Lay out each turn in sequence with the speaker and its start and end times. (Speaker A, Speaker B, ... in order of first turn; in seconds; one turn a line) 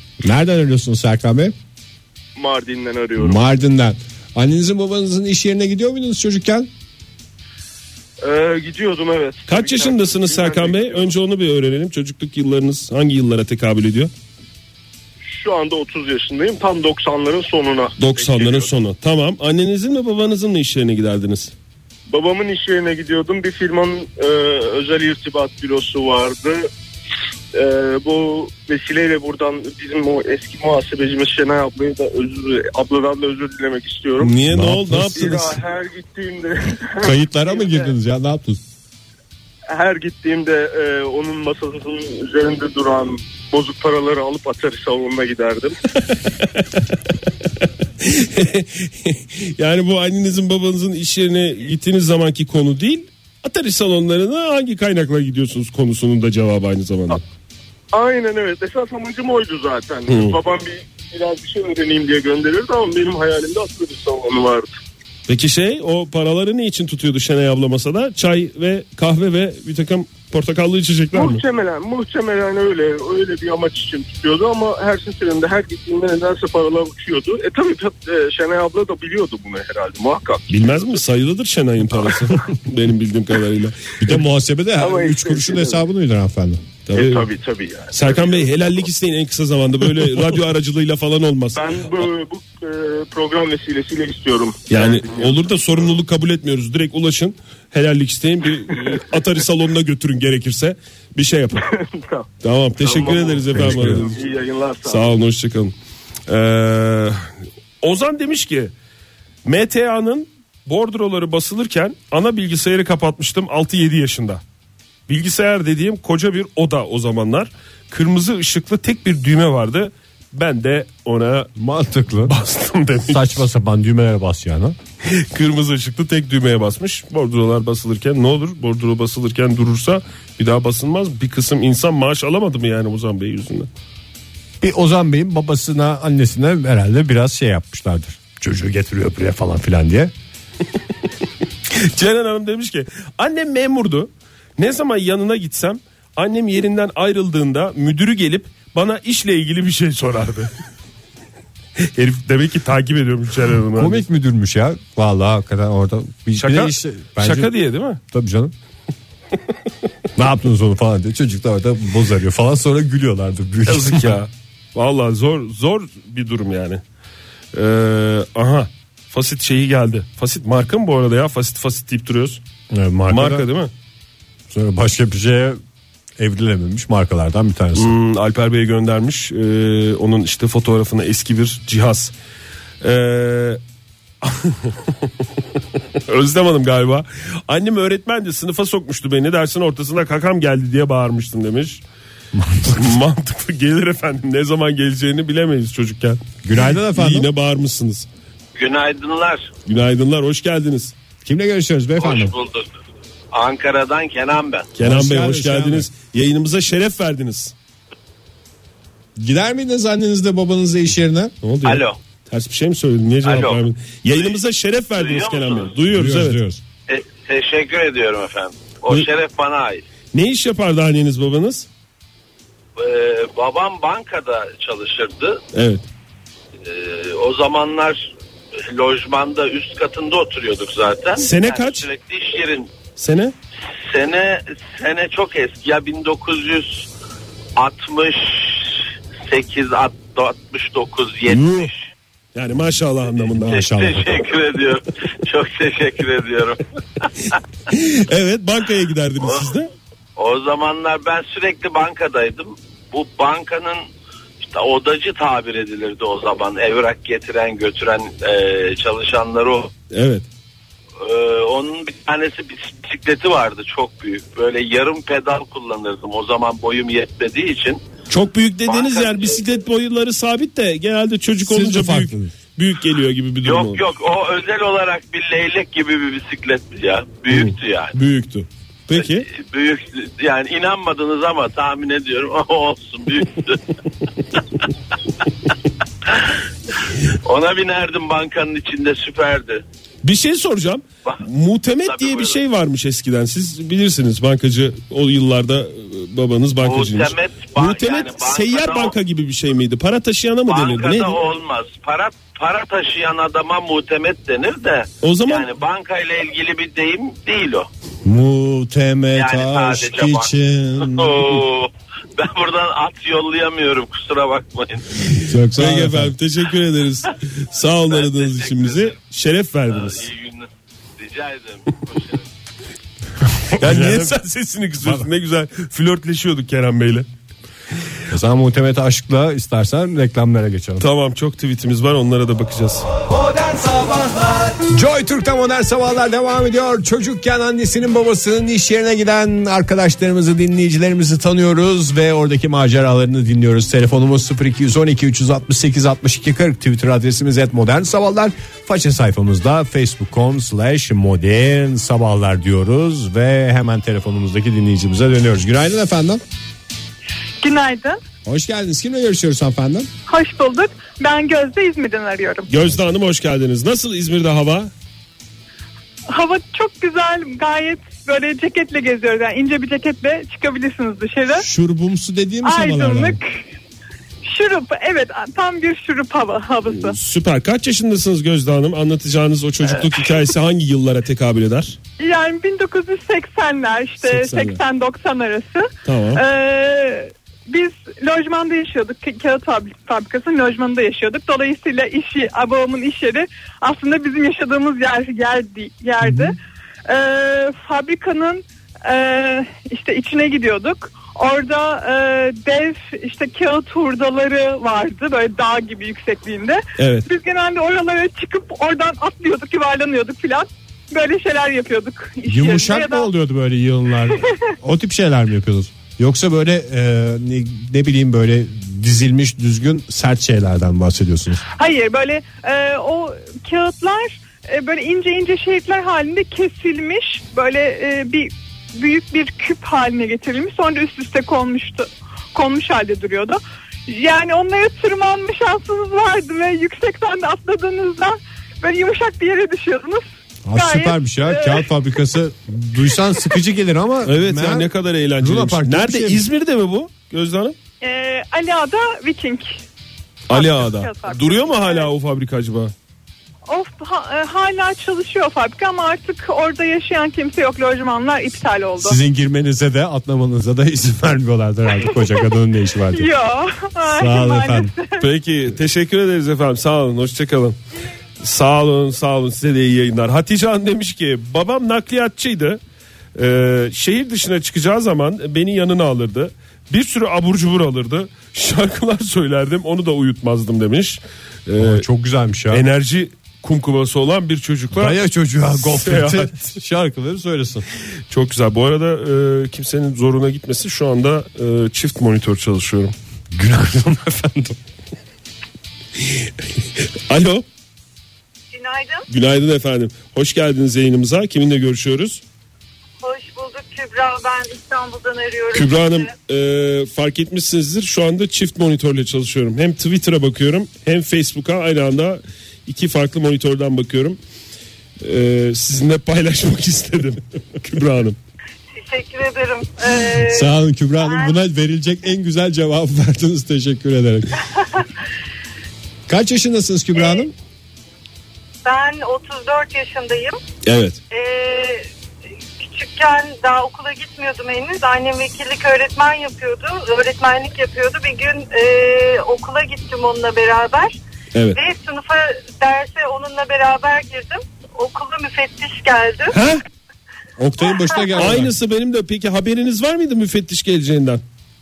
Speaker A: 0.2-1.5
Speaker B: 2.3-3.4
Speaker A: 3.2-6.7
Speaker B: 8.2-11.1
Speaker C: 9.5-14.1
Speaker B: 15.2-18.7
Speaker C: 18.0-21.5
Speaker B: 22.1-26.7
Speaker B: 27.5-34.4
Speaker C: 34.2-35.5
Speaker A: 34.5-35.5
Speaker B: 35.2-37.9
Speaker A: 37.0-38.6
Speaker B: 39.7-45.8
Speaker C: 48.0-57.2
Speaker B: 57.9-64.7
Speaker C: 60.1-60.4
Speaker C: 65.3-71.4
Speaker B: 71.1-80.4
Speaker C: 80.5-83.9
Speaker A: 84.0-86.7
Speaker B: 84.8-85.8
Speaker C: 86.9-87.3
Speaker B: 86.9-88.7
Speaker C: 87.9-92.1
Speaker B: 91.5-95.5
Speaker C: 94.7-101.7
Speaker B: 98.8-99.2
Speaker B: 101.6-102.3
Speaker C: 102.4-104.2
Speaker B: 102.8-105.2
Speaker A: 103.5-104.0
Speaker C: 104.8-105.7
Speaker C: 106.3-107.3
Speaker C: 107.8-108.7
Speaker C: 109.4-114.4
Speaker C: 115.1-121.5
Speaker A: 121.6-122.3
Speaker C: 122.2-123.4
Speaker A: 123.1-124.8
Speaker C: 125.0-133.7
Speaker A: 134.6-140.1
Speaker C: 141.7-150.5
Speaker C: 151.8-154.0
Speaker A: 153.8-157.5
Speaker C: 156.4-158.0
Speaker A: 158.1-158.5
Speaker A: 160.2-164.2
Speaker C: 163.7-166.8
Speaker C: 167.5-172.4
Speaker A: 172.7-173.5
Speaker C: 173.1-173.7
Speaker A: 174.5-175.6
Speaker A: 176.2-177.9
Speaker C: 177.7-182.1
Speaker C: 182.8-183.6
Speaker C: 184.2-184.9
Speaker C: 186.1-191.8
Speaker A: 192.3-193.0
Speaker C: 192.7-196.2
Speaker A: 196.4-197.3
Speaker C: 196.9-198.1
Speaker D: 198.6-199.5
Speaker C: 199.7-200.9
Speaker A: 201.2-202.3
Speaker D: 202.0-202.8
Speaker D: 203.3-204.7
Speaker C: 204.8-207.5
Speaker A: 204.8-205.9
Speaker A: 209.2-211.3
Speaker C: 211.4-216.4
Speaker D: 211.6-212.0
Speaker D: 213.2-214.3
Speaker D: 215.0-215.8
Speaker A: 215.9-216.6
Speaker D: 216.9-219.8
Speaker C: 220.1-221.7
Speaker D: 222.8-225.4
Speaker C: 225.5-225.8
Speaker D: 226.6-228.1
Speaker D: 228.7-232.7
Speaker C: 231.2-231.9
Speaker C: 233.0-233.3
Speaker D: 233.9-236.9
Speaker D: 237.6-241.8
Speaker C: 241.3-241.7
Speaker C: 242.3-243.7
Speaker A: 243.4-244.2
Speaker D: 243.5-246.6
Speaker C: 247.7-249.7
Speaker D: 249.2-249.5
Speaker D: 250.2-253.9
Speaker D: 254.4-259.7
Speaker C: 259.9-260.3
Speaker D: 261.0-267.8
Speaker C: 268.1-273.9
Speaker D: 268.7-269.4
Speaker A: 271.4-272.3
Speaker D: 273.4-277.9
Speaker A: 277.9-278.5
Speaker C: 278.9-279.3
Speaker D: 278.9-283.6
Speaker D: 287.2-289.6
Speaker C: 290.0-301.2
Speaker D: 291.9-292.4
Speaker D: 296.6-298.9
Speaker D: 300.5-307.7
Speaker C: 305.0-305.5
Speaker A: 308.0-311.4
Speaker D: 309.1-315.0
Speaker A: 315.3-316.1
Speaker C: 315.5-320.1
Speaker D: 317.9-318.9
Speaker D: 319.7-322.3
Speaker C: 323.5-327.1
Speaker A: 323.5-324.1
Speaker A: 324.8-325.1
Speaker A: 328.1-330.9
Speaker C: 330.8-332.9
Speaker A: 333.5-334.0
Speaker A: 334.6-356.2
Speaker E: 357.4-358.0
Speaker A: 358.2-359.9
Speaker E: 360.1-362.5
Speaker C: 362.5-364.7
Speaker E: 366.1-371.4
Speaker A: 371.3-373.2
Speaker E: 372.4-373.3
Speaker E: 374.2-377.0
Speaker C: 376.7-381.8
Speaker E: 382.0-413.1
Speaker C: 384.0-384.6
Speaker C: 385.8-386.2
Speaker A: 396.0-396.3
Speaker C: 406.8-407.1
Speaker A: 412.2-421.4
Speaker E: 421.6-441.7
Speaker A: 440.4-446.2
Speaker C: 444.0-447.6
Speaker E: 447.8-449.6
Speaker C: 450.3-452.7
Speaker E: 450.3-451.9
Speaker E: 453.5-459.0
Speaker A: 458.8-463.1
Speaker E: 461.8-462.3
Speaker E: 462.9-465.0
Speaker A: 463.8-464.7
Speaker C: 465.0-467.6
Speaker C: 468.2-472.6
Speaker C: 473.1-481.9
Speaker A: 481.6-482.6
Speaker C: 482.5-485.0
Speaker A: 484.7-487.7
Speaker C: 485.5-486.3
Speaker C: 488.1-492.9
Speaker A: 493.3-494.6
Speaker C: 496.0-497.4
Speaker F: 498.5-499.1
Speaker C: 499.1-502.2
Speaker F: 503.0-506.1
Speaker C: 505.5-514.2
Speaker C: 515.0-518.2
Speaker F: 518.7-521.4
Speaker A: 520.1-524.4
Speaker A: 526.1-527.3
Speaker F: 528.6-530.4
Speaker C: 530.6-531.0
Speaker F: 531.1-531.9
Speaker F: 532.6-541.0
Speaker C: 541.3-541.6
Speaker F: 541.5-546.4
Speaker C: 546.3-546.6
Speaker A: 547.4-548.5
Speaker C: 548.1-551.2